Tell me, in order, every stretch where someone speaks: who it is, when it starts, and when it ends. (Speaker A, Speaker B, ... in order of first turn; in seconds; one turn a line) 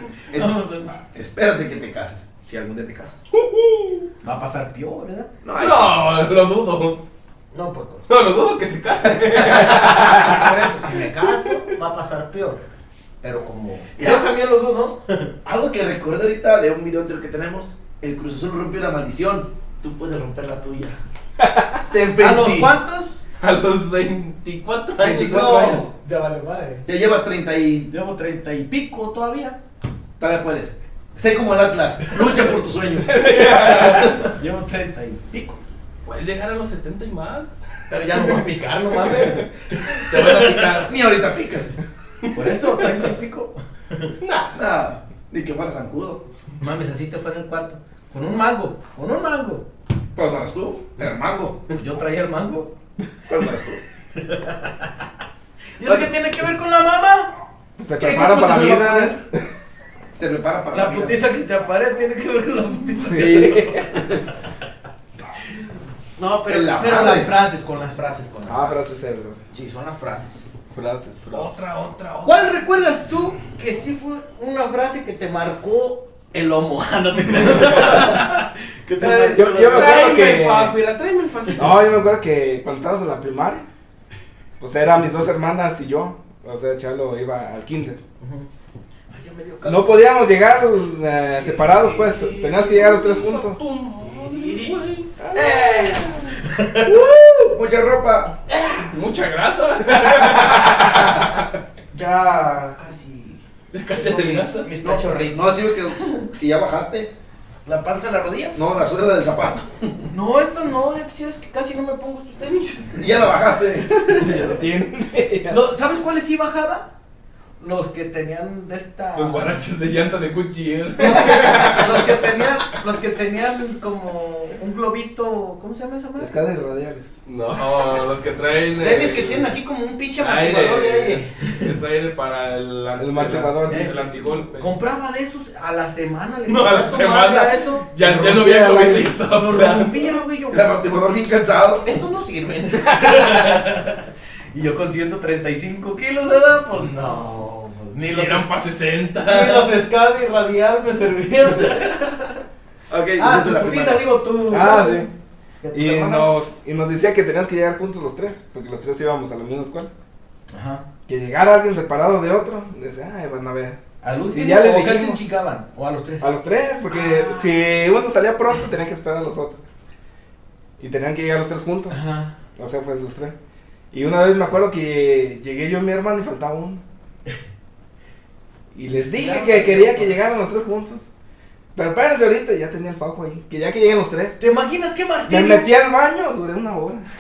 Speaker A: 0.3-1.0
Speaker B: 1.1-3.2
Speaker C: 3.3-4.1
Speaker A: 4.2-5.3
Speaker B: 5.4-6.0
Speaker C: 5.5-7.0
Speaker A: 7.5-8.1
Speaker C: 8.1-11.6
Speaker B: 9.2-10.1
Speaker A: 9.7-12.6
Speaker A: 13.2-15.3
Speaker B: 14.0-14.3
Speaker B: 15.4-21.0
Speaker D: 21.4-21.8
Speaker B: 21.9-22.7
Speaker A: 22.2-23.2
Speaker C: 23.4-25.9
Speaker B: 25.0-25.9
Speaker A: 25.2-26.9
Speaker B: 26.9-27.9
Speaker A: 27.9-29.6
Speaker B: 30.2-34.3
Speaker C: 33.1-34.2
Speaker D: 33.3-34.1
Speaker A: 34.2-35.2
Speaker B: 35.3-35.6
Speaker C: 36.0-37.6
Speaker A: 37.9-40.8
Speaker C: 38.1-38.4
Speaker C: 39.0-40.9
Speaker B: 40.6-41.8
Speaker C: 42.2-43.1
Speaker A: 42.3-44.1
Speaker C: 44.2-44.5
Speaker B: 44.5-46.2
Speaker A: 46.6-49.6
Speaker B: 50.1-51.6
Speaker A: 51.7-52.7
Speaker B: 53.3-53.8
Speaker A: 54.1-54.9
Speaker A: 55.8-57.3
Speaker B: 55.9-56.1
Speaker D: 57.8-59.4
Speaker B: 58.0-59.1
Speaker B: 60.2-61.2
Speaker A: 60.7-64.2
Speaker D: 63.0-64.0
Speaker A: 66.2-68.9
Speaker B: 66.5-67.3
Speaker D: 68.5-69.4
Speaker A: 69.5-70.5
Speaker D: 70.7-71.6
Speaker C: 71.3-72.5
Speaker A: 72.2-80.3
Speaker C: 77.5-78.2
Speaker C: 79.0-81.8
Speaker D: 79.2-80.8
Speaker D: 81.5-83.7
Speaker D: 84.6-88.0
Speaker A: 88.2-88.5
Speaker A: 89.1-90.1
Speaker D: 89.7-93.6
Speaker C: 91.7-95.1
Speaker A: 94.0-97.0
Speaker D: 95.2-96.3
Speaker C: 96.9-97.5
Speaker B: 97.5-98.3
Speaker A: 98.5-99.0
Speaker C: 98.9-101.3
Speaker A: 100.2-101.3
Speaker A: 101.9-106.3
Speaker C: 103.7-104.8
Speaker B: 104.8-107.1
Speaker A: 107.7-108.6
Speaker B: 108.5-110.1
Speaker A: 110.1-113.2
Speaker B: 113.0-114.4
Speaker A: 114.1-114.5
Speaker D: 114.1-115.6
Speaker A: 115.5-116.9
Speaker A: 117.6-119.6
Speaker C: 119.2-122.8
Speaker A: 121.0-126.3
Speaker D: 121.2-122.0
Speaker D: 126.2-127.1
Speaker C: 127.3-129.5
Speaker A: 128.8-131.7
Speaker C: 130.2-134.7
Speaker D: 133.0-134.3
Speaker A: 133.7-137.9
Speaker C: 136.5-140.1
Speaker D: 138.0-139.1
Speaker A: 139.3-140.7
Speaker B: 140.5-141.9
Speaker A: 141.8-148.5
Speaker C: 148.0-149.8
Speaker A: 149.2-152.4
Speaker B: 152.9-154.1
Speaker A: 153.2-155.1
Speaker D: 154.5-155.1
Speaker A: 155.6-156.3
Speaker D: 155.7-159.9
Speaker A: 160.5-160.8
Speaker D: 161.1-163.8
Speaker A: 164.0-166.3
Speaker D: 164.3-165.2
Speaker D: 166.2-169.6
Speaker A: 166.9-167.5
Speaker D: 170.8-173.3
Speaker A: 171.9-172.3
Speaker D: 173.9-176.8
Speaker D: 178.7-181.1
Speaker A: 178.9-180.2
Speaker D: 181.8-184.4
Speaker A: 184.4-185.7
Speaker D: 185.3-187.1